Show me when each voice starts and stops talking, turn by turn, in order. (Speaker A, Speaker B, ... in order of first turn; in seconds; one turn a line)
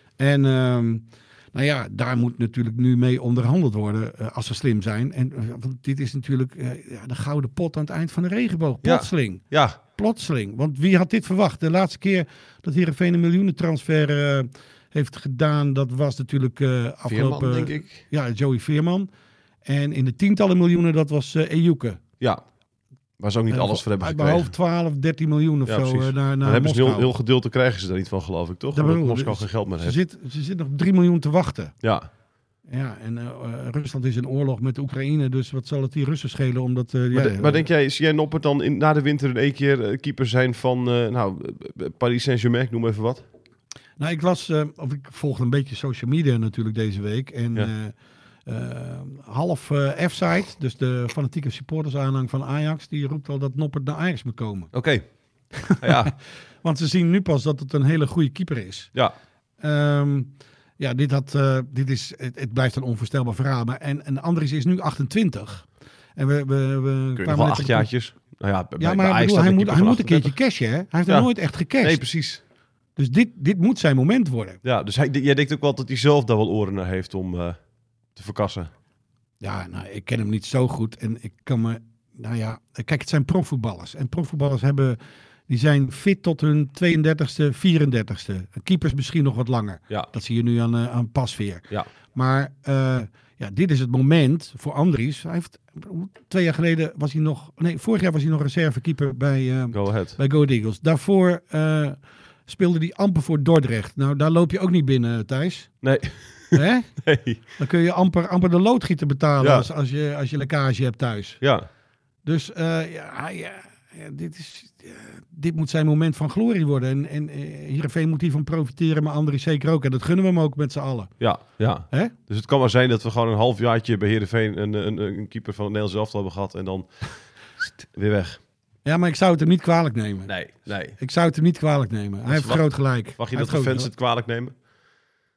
Speaker A: 0.2-19.1
Speaker B: 8.8-9.8
Speaker B: 17.1-18.0
Speaker A: 19.6-22.0
Speaker B: 23.2-24.5
Speaker A: 23.5-27.1
Speaker B: 25.6-30.0
Speaker A: 28.7-31.7
Speaker B: 31.8-32.1
Speaker A: 32.7-37.6
Speaker B: 37.1-43.2
Speaker A: 44.0-47.9
Speaker A: 48.5-54.7
Speaker B: 54.7-55.0
Speaker A: 55.6-56.1
Speaker B: 55.8-56.1
Speaker A: 56.6-58.9
Speaker A: 59.6-67.9
Speaker B: 67.2-70.4
Speaker A: 68.8-72.0
Speaker B: 71.1-72.4
Speaker A: 73.0-74.6
Speaker B: 74.6-77.6
Speaker B: 78.1-78.7
Speaker A: 79.4-105.8
Speaker B: 99.7-100.2
Speaker B: 105.8-107.4
Speaker A: 106.5-111.4
Speaker B: 109.4-109.7
Speaker B: 111.4-111.7
Speaker A: 112.2-121.1
Speaker B: 121.2-128.4
Speaker A: 128.8-133.9
Speaker B: 130.3-130.9
Speaker B: 132.3-134.5